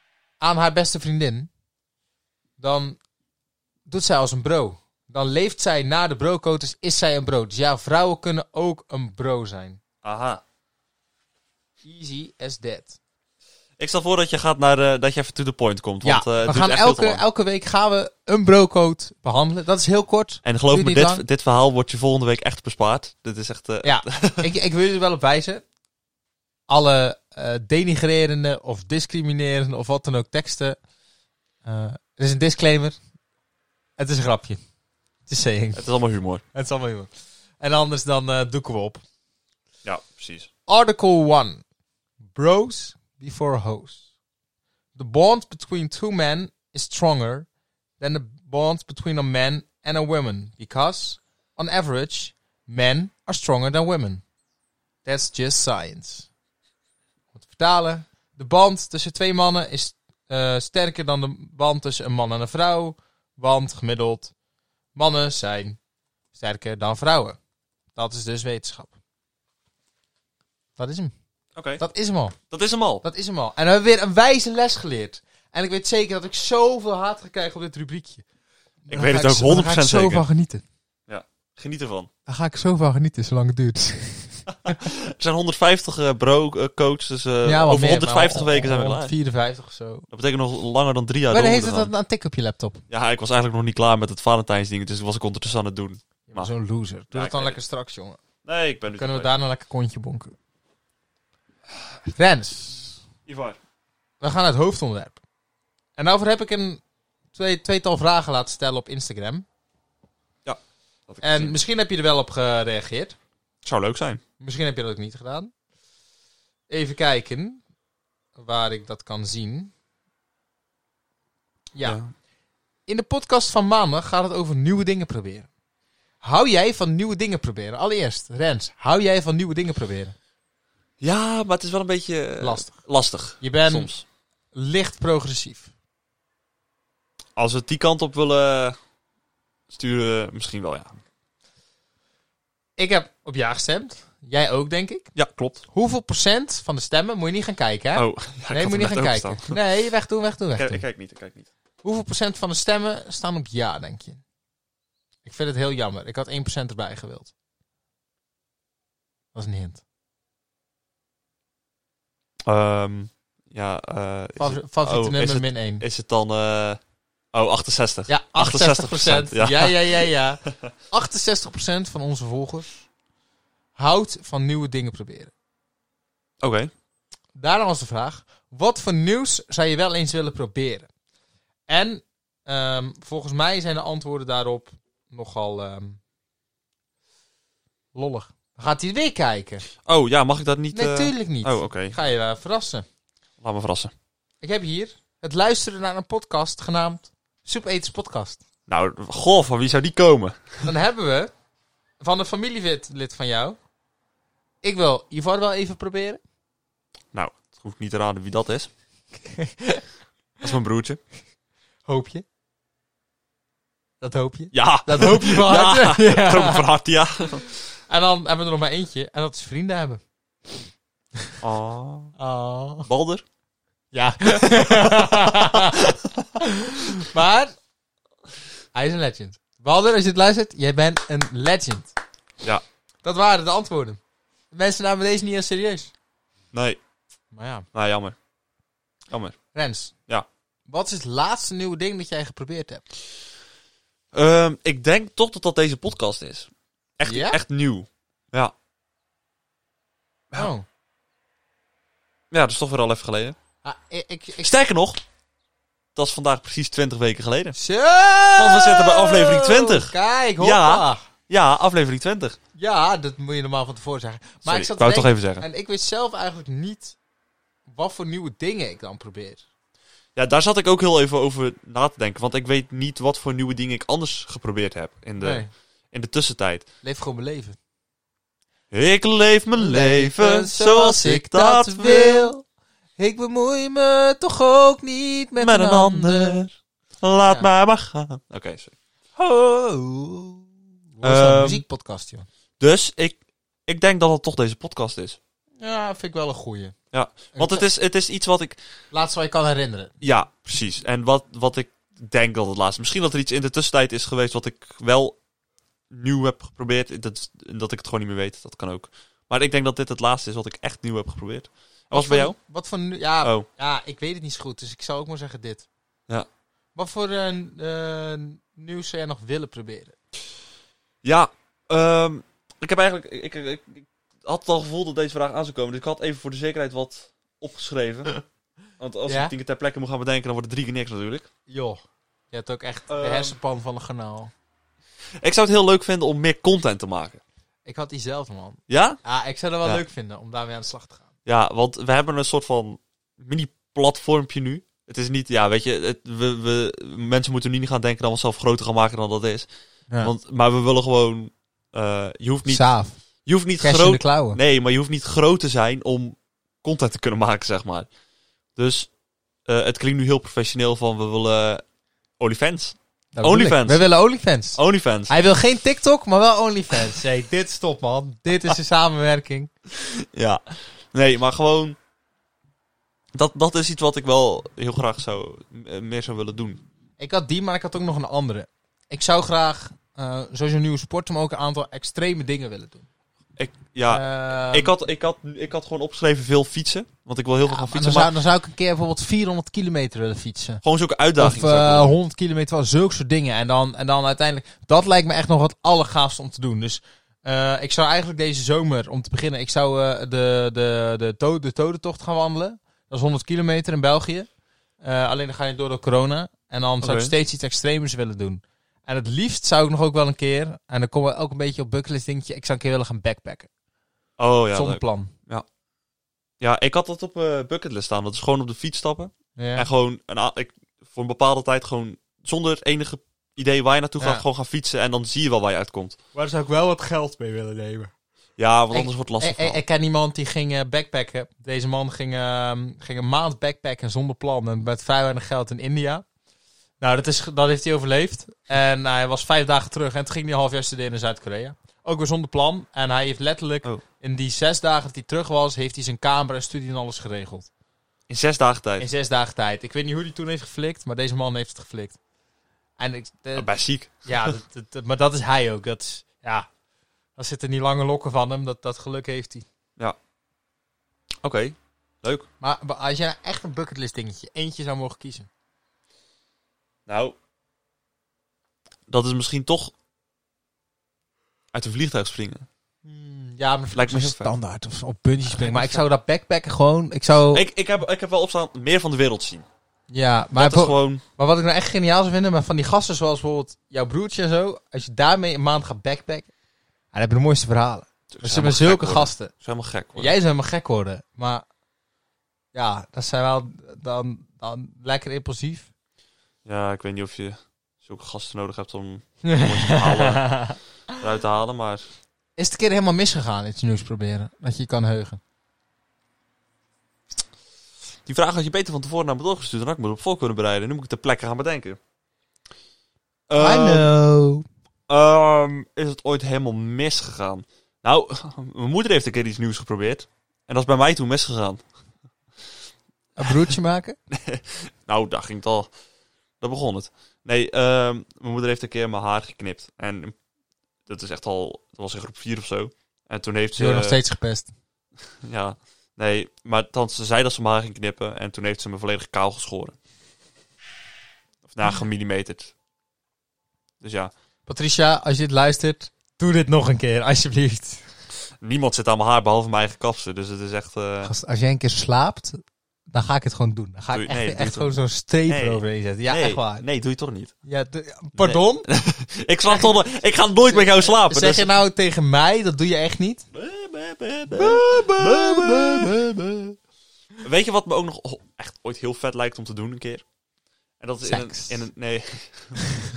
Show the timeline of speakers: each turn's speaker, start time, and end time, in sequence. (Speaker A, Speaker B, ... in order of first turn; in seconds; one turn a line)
Speaker A: 0.4-1.5
Speaker A: 2.6-3.0
Speaker A: 3.9-9.8
Speaker B: 10.0-10.4
Speaker A: 11.8-13.0
Speaker B: 13.8-17.2
Speaker A: 16.0-21.2
Speaker B: 20.4-24.5
Speaker A: 23.8-25.6
Speaker A: 26.7-30.8
Speaker A: 31.6-33.0
Speaker A: 34.0-34.6
Speaker A: 35.3-35.8
Speaker B: 35.8-36.4
Speaker A: 36.5-39.0
Speaker B: 39.8-40.5
Speaker A: 40.7-41.6
Speaker A: 42.4-44.0
Speaker A: 45.0-47.5
Speaker A: 48.0-54.2
Speaker A: 55.0-56.3
Speaker A: 57.4-64.3
Speaker A: 65.0-65.8
Speaker A: 66.3-67.4
Speaker A: 68.0-69.0
Speaker A: 70.8-71.1
Speaker B: 71.5-71.8
Speaker A: 71.8-72.4
Speaker B: 72.5-73.0
Speaker A: 73.0-78.2
Speaker A: 78.9-80.6
Speaker B: 78.9-80.2
Speaker B: 81.1-82.1
Speaker A: 82.3-84.8
Speaker B: 84.7-89.1
Speaker A: 87.4-90.1
Speaker B: 90.1-91.9
Speaker A: 91.3-92.8
Speaker B: 92.9-96.5
Speaker A: 96.3-98.2
Speaker B: 97.1-97.6
Speaker B: 98.4-99.3
Speaker A: 99.0-100.3
Speaker A: 102.1-103.0
Speaker B: 103.3-103.6
Speaker A: 104.2-105.2
Speaker A: 106.0-106.8
Speaker A: 107.3-109.5
Speaker B: 110.5-111.6
Speaker A: 111.2-113.2
Speaker B: 113.6-114.2
Speaker A: 114.4-115.5
Speaker A: 116.7-117.6
Speaker A: 118.4-119.7
Speaker A: 121.8-122.0
Speaker B: 121.8-122.1
Speaker A: 122.9-125.5
Speaker A: 126.2-130.2
Speaker B: 131.0-134.0
Speaker A: 132.4-132.8
Speaker A: 133.4-133.9
Speaker A: 134.5-135.7
Speaker B: 137.4-138.8
Speaker B: 139.7-141.0
Speaker A: 142.8-145.1
Speaker B: 145.2-145.6
Speaker A: 145.7-150.8
Speaker B: 147.9-149.6
Speaker B: 150.6-151.5
Speaker A: 151.8-154.2
Speaker A: 155.2-157.3
Speaker A: 159.3-159.8
Speaker B: 162.5-166.8
Speaker A: 164.4-165.8
Speaker B: 167.3-170.1
Speaker A: 168.1-172.8
Speaker A: 173.8-175.3
Speaker B: 176.4-176.7
Speaker A: 177.3-180.9
Speaker A: 181.7-186.0
Speaker A: 187.9-189.7
Speaker B: 189.8-191.9
Speaker A: 190.7-192.9
Speaker B: 193.4-193.9
Speaker A: 194.4-198.4
Speaker B: 198.7-200.7
Speaker A: 200.7-201.3
Speaker A: 202.0-203.6
Speaker A: 204.6-206.2
Speaker B: 207.1-208.7
Speaker A: 209.2-209.8
Speaker B: 210.4-211.0
Speaker A: 211.9-212.2
Speaker A: 214.0-216.7
Speaker B: 214.5-217.4
Speaker A: 217.9-220.0
Speaker B: 221.4-222.1
Speaker A: 222.2-222.9
Speaker B: 222.9-223.2
Speaker A: 223.9-227.5
Speaker B: 224.6-226.1
Speaker A: 228.7-231.9
Speaker A: 233.0-234.0
Speaker A: 234.5-235.9
Speaker B: 236.5-236.8
Speaker A: 237.3-237.7
Speaker B: 237.7-238.2
Speaker B: 239.1-239.4
Speaker A: 239.5-239.9
Speaker A: 240.7-242.8
Speaker B: 244.1-248.5
Speaker A: 247.1-247.4
Speaker A: 250.4-250.7
Speaker B: 252.3-253.4
Speaker A: 253.6-254.5
Speaker B: 254.4-255.0
Speaker B: 255.9-257.6
Speaker A: 257.6-261.0
Speaker B: 258.4-262.4
Speaker A: 262.6-267.0
Speaker B: 264.4-265.4
Speaker A: 267.7-269.4
Speaker B: 270.2-276.6
Speaker A: 275.2-275.5
Speaker A: 276.8-277.6
Speaker B: 278.7-282.3
Speaker A: 279.6-282.4
Speaker A: 283.0-286.4
Speaker B: 285.4-288.8
Speaker A: 289.2-292.3
Speaker B: 291.0-291.6
Speaker B: 292.6-295.2
Speaker A: 295.6-296.8
Speaker B: 296.9-298.6
Speaker A: 297.3-297.7
Speaker A: 298.9-299.9
Speaker B: 300.0-305.2
Speaker B: 305.9-312.4
Speaker A: 311.9-315.7
Speaker B: 313.2-313.5
Speaker A: 316.8-320.0
Speaker B: 321.0-328.1
Speaker B: 328.8-331.3
Speaker A: 329.1-329.3
Speaker A: 331.5-331.8
Speaker A: 332.3-334.3
Speaker B: 332.9-333.4
Speaker B: 335.2-337.2
Speaker A: 337.7-341.1
Speaker B: 338.7-339.0
Speaker B: 341.3-349.5
Speaker B: 350.0-352.6
Speaker A: 352.5-353.0
Speaker B: 353.3-357.9
Speaker A: 353.6-354.4
Speaker B: 358.6-358.9
Speaker B: 359.5-361.6
Speaker B: 362.2-363.9
Speaker A: 363.1-369.5
Speaker B: 364.6-365.1
Speaker B: 369.8-371.8
Speaker B: 373.1-376.6
Speaker A: 377.0-382.9
Speaker B: 383.4-388.1
Speaker A: 383.9-384.7
Speaker A: 387.5-390.6
Speaker B: 390.6-391.9
Speaker A: 391.2-404.3
Speaker A: 404.8-413.5
Speaker B: 406.8-407.1
Speaker B: 414.2-415.5
Speaker A: 414.5-415.1
Speaker B: 416.4-426.0
Speaker A: 419.4-419.7
Speaker A: 424.0-424.2
Speaker A: 426.1-427.9
Speaker B: 428.4-429.6
Speaker A: 428.7-436.1
Speaker A: 436.8-447.5
Speaker B: 448.1-448.9
Speaker A: 448.8-452.0
Speaker A: 452.8-453.5
Speaker B: 453.4-454.3
Speaker A: 454.0-456.5
Speaker A: 457.2-459.5
Speaker B: 461.2-462.3
Speaker A: 462.4-465.3
Speaker B: 466.9-467.2
Speaker B: 468.9-469.7
Speaker B: 471.5-472.5
Speaker A: 472.9-477.4
Speaker B: 473.7-474.3
Speaker B: 475.3-475.9
Speaker B: 477.3-479.4
Speaker A: 479.9-486.3
Speaker B: 480.4-481.0
Speaker A: 486.9-489.3
Speaker B: 488.1-490.1
Speaker A: 490.0-491.4
Speaker A: 492.5-495.7
Speaker B: 496.4-501.9
Speaker A: 499.2-501.0
Speaker A: 502.4-505.2
Speaker B: 508.1-511.8
Speaker B: 513.3-513.9
Speaker A: 513.4-514.5
Speaker B: 514.9-521.6
Speaker A: 523.2-524.0
Speaker B: 524.1-525.7
Speaker B: 526.4-530.2
Speaker B: 530.9-534.0
Speaker A: 533.6-534.5
Speaker B: 535.2-539.8
Speaker B: 541.5-542.5
Speaker B: 543.8-544.1
Speaker A: 544.5-547.9
Speaker B: 548.4-551.1
Speaker A: 551.0-556.6
Speaker B: 553.9-557.3
Speaker A: 557.4-558.7
Speaker B: 558.1-561.5
Speaker A: 560.5-563.3
Speaker B: 563.3-566.6
Speaker A: 564.3-566.0
Speaker B: 567.2-570.0
Speaker B: 570.8-572.6
Speaker A: 571.0-571.6